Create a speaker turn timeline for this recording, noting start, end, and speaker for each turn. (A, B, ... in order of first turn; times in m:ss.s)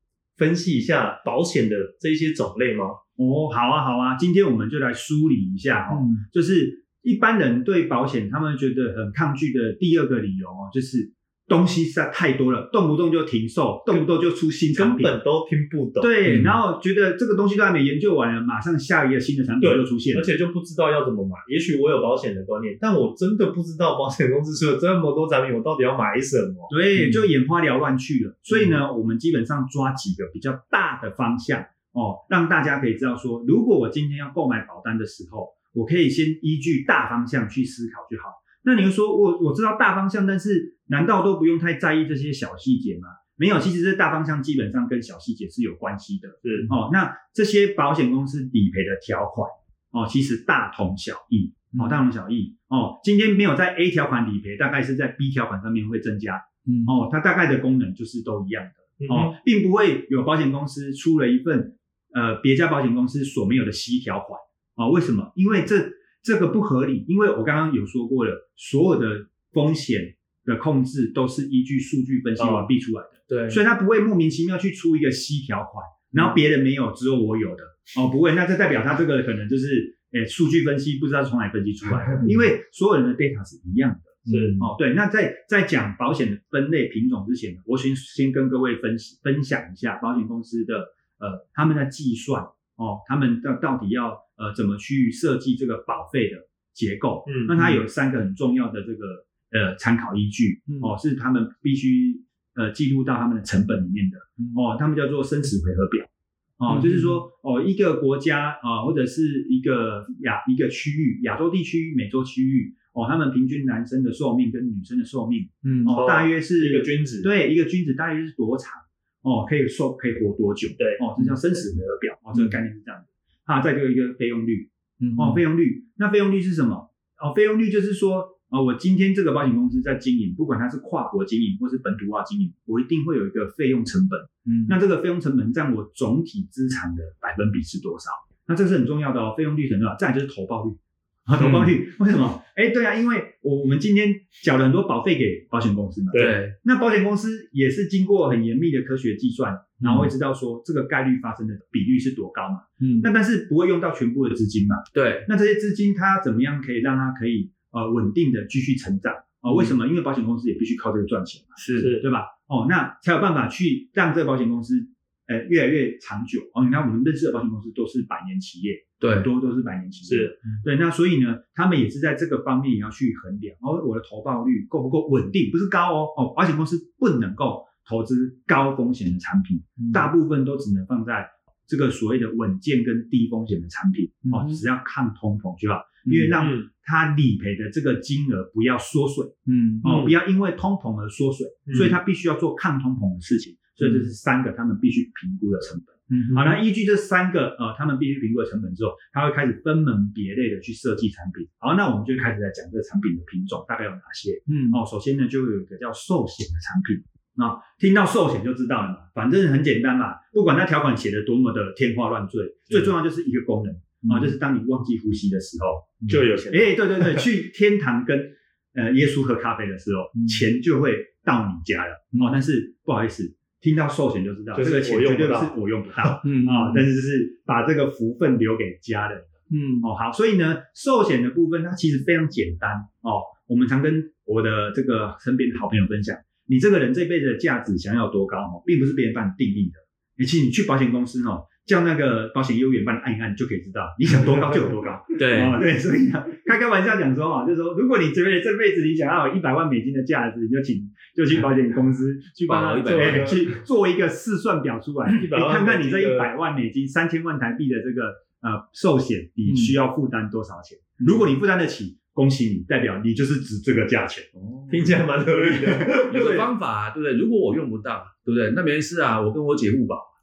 0:00.4-0:03.0 A
0:03.2-0:15.2 B
0:05.9-0:06.2 C
0:14.7-0:16.1 A
0:16.0-0:20.3 B
0:16.2-0:16.6 C
0:19.6-0:26.7 A
0:26.7-4:24.3 B
0:27.0-0:27.2 C
0:51.7-0:52.0 C
0:56.6-0:56.9 C
0:59.0-0:59.3 A
1:12.4-1:12.6 A
1:13.3-1:13.6 C
1:24.2-1:24.7 C
1:24.3-1:24.6 A
1:37.2-1:37.6 A
1:40.7-1:40.9 C
1:46.7-1:47.2 C
1:55.6-1:55.9 C
1:55.8-1:57.3 A
2:05.0-2:05.4 C
2:14.4-2:14.7 C
2:21.4-2:21.7 C
2:26.1-2:26.5 C
2:29.8-2:30.1 C
2:32.8-2:33.1 C
2:34.9-2:35.3 C
2:39.4-2:39.7 C
2:41.6-2:42.0 C
2:41.8-2:42.0 A
2:49.0-2:49.3 C
2:50.0-2:50.3 A
3:04.2-3:04.6 C
3:06.0-3:06.3 C
3:06.4-3:06.6 A
3:09.4-3:09.8 C
3:09.8-3:10.1 A
3:11.7-3:11.9 A
3:16.1-3:16.4 C
3:24.5-3:24.8 C
3:34.0-3:34.3 C
3:36.1-3:37.2 A
3:40.2-3:40.4 C
3:42.1-3:42.4 C
3:44.5-3:45.5 A
3:46.2-3:46.8 C
3:49.5-3:49.9 C
4:05.2-4:05.6 C
4:12.5-4:13.4 C
4:12.8-4:13.5 A
4:15.1-4:16.3 A
4:19.5-4:19.8 C
4:21.0-4:21.3 C
4:24.3-4:25.0 C
4:24.7-4:26.4 A
4:25.4-4:26.5 B
4:26.1-4:30.1 C